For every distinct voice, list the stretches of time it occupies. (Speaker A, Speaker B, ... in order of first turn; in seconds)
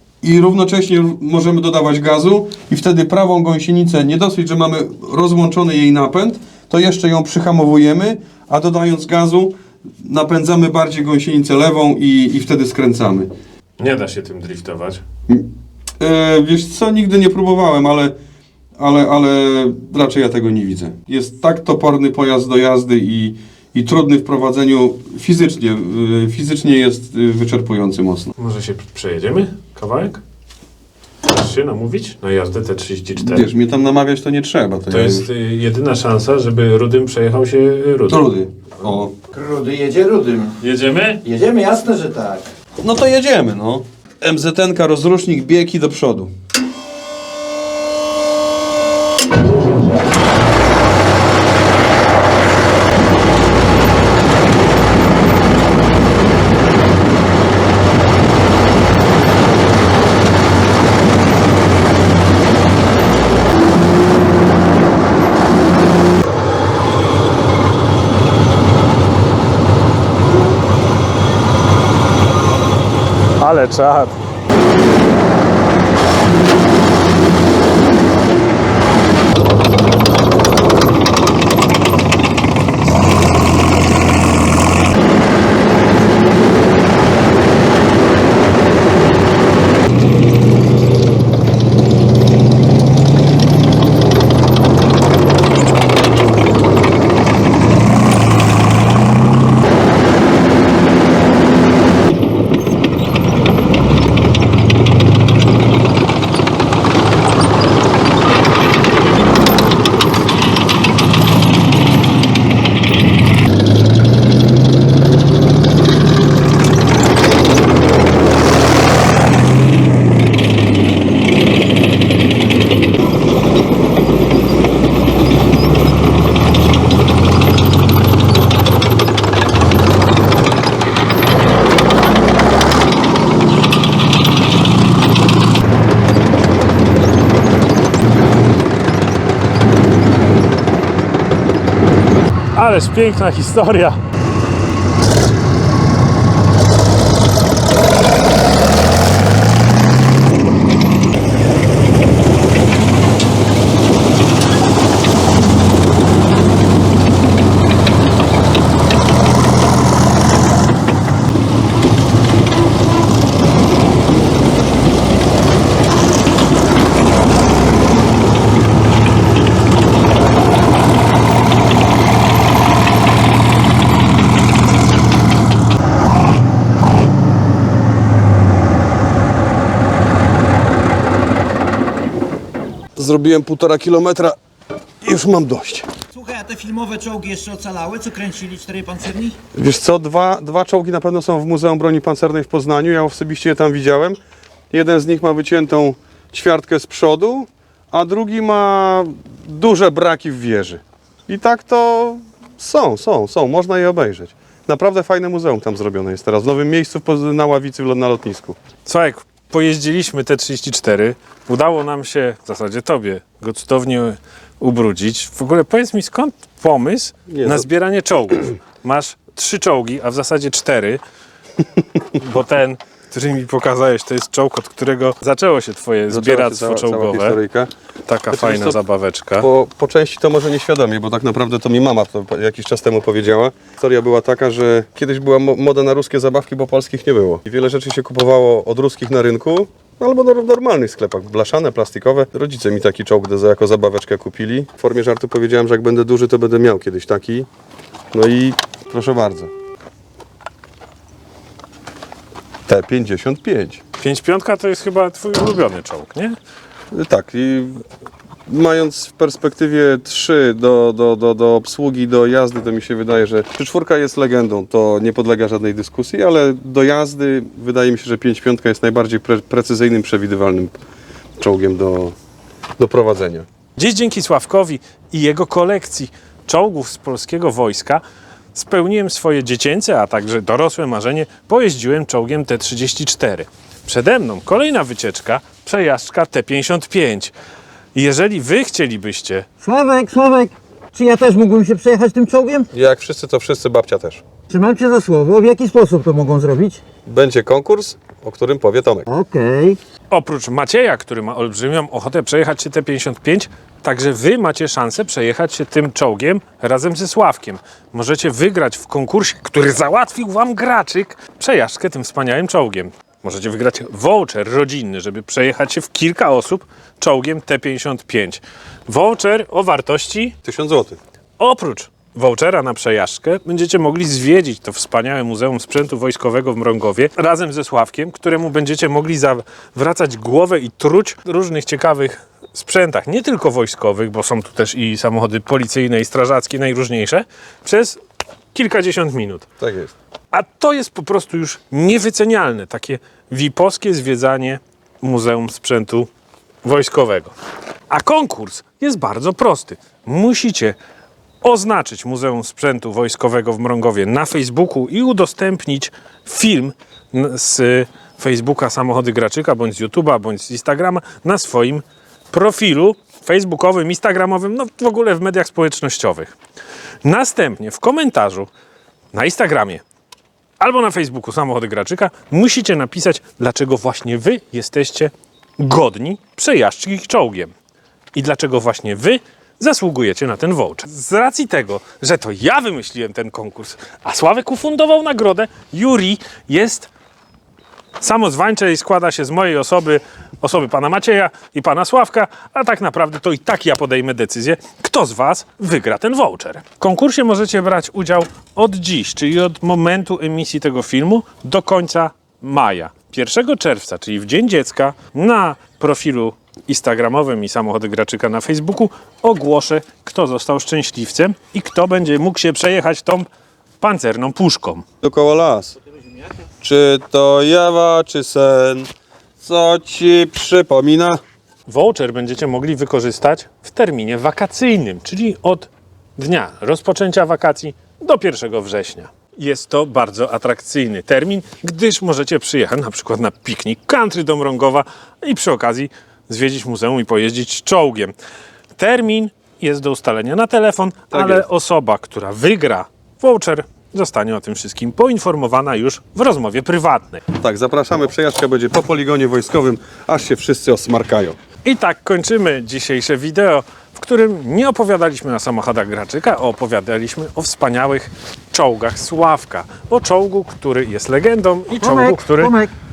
Speaker A: 0.2-13.3, 16.0-18.1, 18.8-28.3, 33.2-35.3, 38.1-39.1, 42.8-46.3, 182.9-184.4, 185.0-185.9, 189.5-194.2, 194.7-208.6, 217.3-217.7, 226.1-227.7, 228.3-228.8, 229.4-247.5, 248.1-249.5, 252.7-253.8, 256.9-257.8, 258.5-270.8, 271.4-272.1, 272.8-273.4, 292.7-294.2, 297.1-299.1, 320.4-321.0, 339.6-339.9, 415.0-415.8, 416.6-418.9, 419.4-421.2, 441.1-441.4, 447.3-451.4
Speaker B: 13.8-15.0, 28.4-30.2, 31.2-33.5, 34.9-38.2, 40.6-41.2, 73.4-74.2, 142.5-144.0, 208.8-221.0, 222.1-227.4, 228.1-229.5, 254.0-256.3, 273.8-278.0, 278.5-287.3, 287.9-289.5, 300.1-320.4, 321.4-338.0, 338.5-339.5, 340.3-346.1, 346.6-347.3, 347.9-350.8, 351.4-366.3, 367.0-368.5, 369.1-369.8, 370.6-377.5, 378.1-386.9, 388.0-413.3, 413.8-414.8, 421.7-438.1, 438.8-447.2, 451.6-462.5
Speaker C: 39.3-40.6, 41.2-42.4, 186.1-189.4, 289.6-292.7, 294.5-296.8, 299.1-299.8, 461.8-462.7